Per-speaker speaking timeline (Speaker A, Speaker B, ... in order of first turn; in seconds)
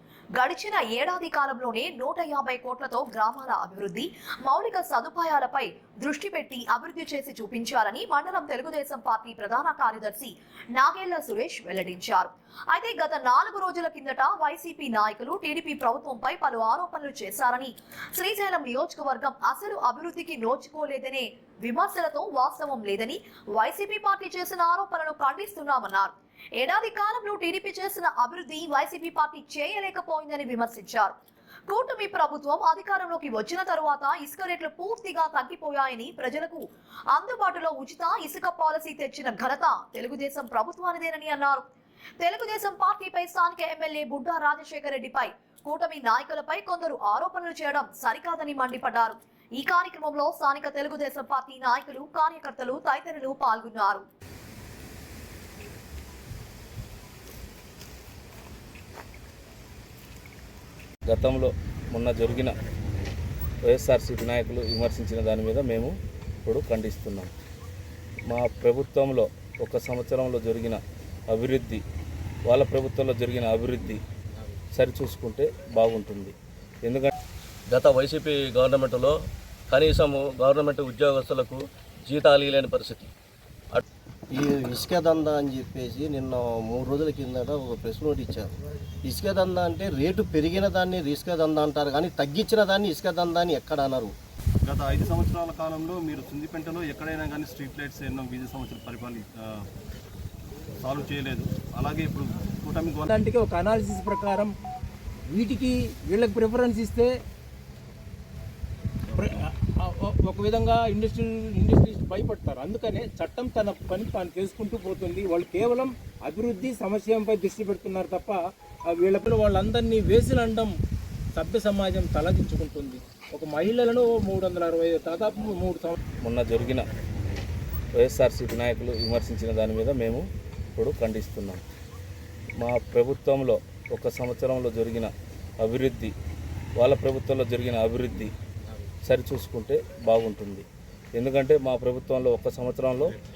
Speaker A: 0.3-31.1, 31.7-41.6, 42.2-54.0
Speaker B: 61.1-62.5, 63.7-65.9, 66.4-67.3, 68.3-70.8, 71.3-71.8, 72.5-74.0, 74.7-77.1, 126.2-126.9, 128.0-130.2, 130.8-131.6, 132.6-136.1, 136.8-138.3, 139.1-140.6, 141.2-143.2
Speaker C: 77.7-79.2, 79.7-83.1
Speaker D: 84.3-88.5, 89.0-94.1
Speaker E: 94.6-99.6, 100.8-103.0
Speaker F: 103.0-104.5, 105.3-107.1, 109.1-120.7, 121.4-126.0